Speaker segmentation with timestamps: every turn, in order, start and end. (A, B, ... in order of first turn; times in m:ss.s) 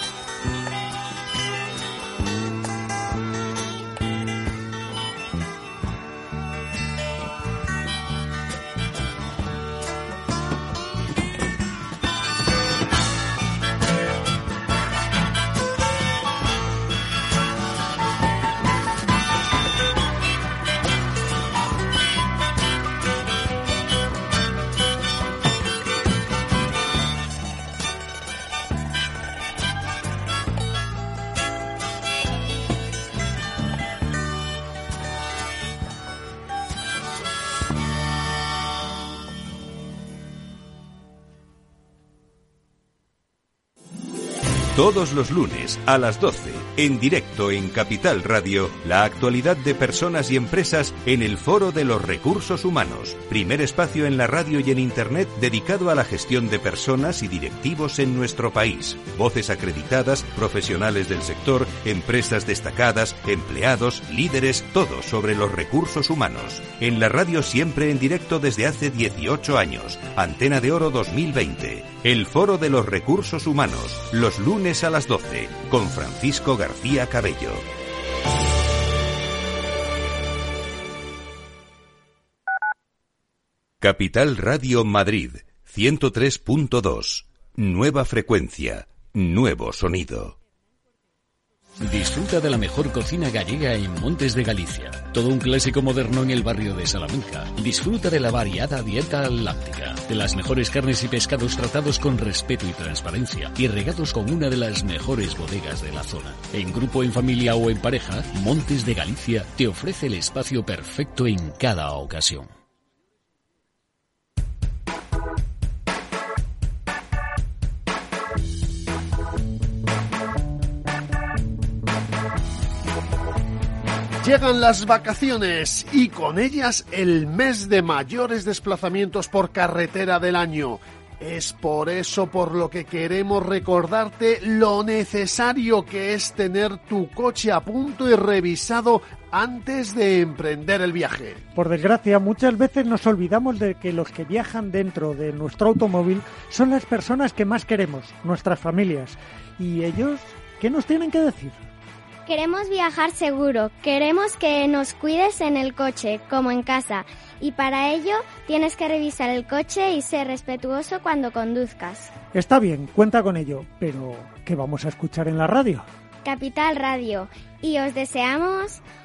0:44.7-1:17.6 A
1:23.8-1:30.3 A
1:31.8-1:52.5 B
2:04.2-2:21.4 C
2:21.5-2:31.6 D
2:32.2-2:42.1 E
2:42.3-2:45.8 D
2:46.2-2:48.8 E